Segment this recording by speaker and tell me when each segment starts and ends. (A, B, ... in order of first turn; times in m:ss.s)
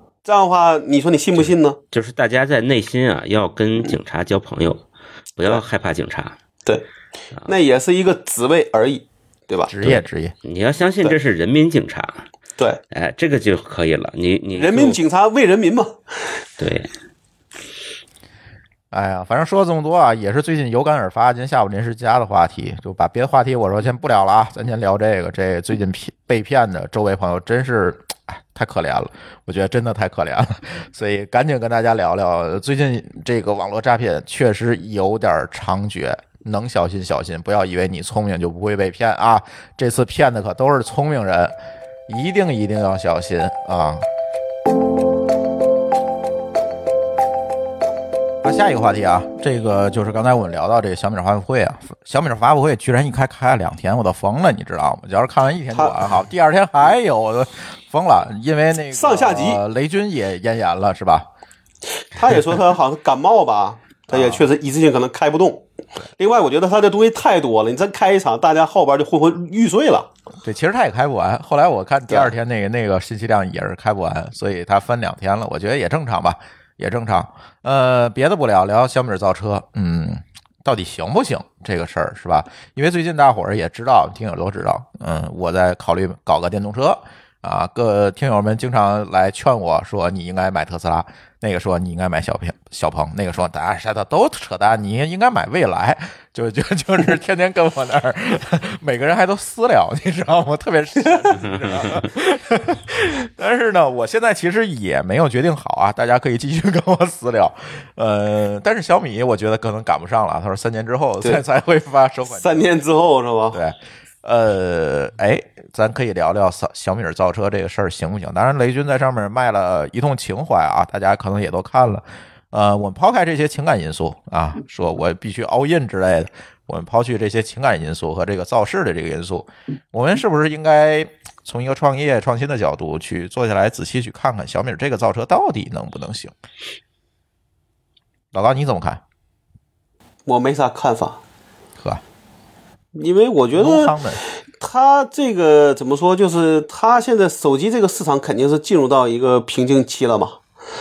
0:00.2-0:01.8 A
0:01.9-0:04.8 B
0:05.4-0:06.4 B
0:07.5-0:09.7 A
0:09.7-0:10.3 C
0:10.4-0:12.2 B
0:12.9-0:15.0 B
0:14.5-0:16.0 A
0:16.6-0:16.9 B
0:18.9-0:41.6 C
0:42.1-0:44.0 C
0:48.4-1:01.3 C
0:55.7-0:56.1 A
0:58.9-0:59.6 A
1:02.1-1:05.6 A
1:04.1-1:04.4 C
1:06.2-1:10.1 A
1:10.4-1:52.7 C
1:41.5-1:42.0 B
1:52.4-1:53.6 A
1:53.5-2:16.3 C
2:18.3-2:19.0 C
2:20.3-2:21.2 A
2:23.0-2:24.0 A
2:23.5-2:24.2 C
2:24.6-2:30.4 A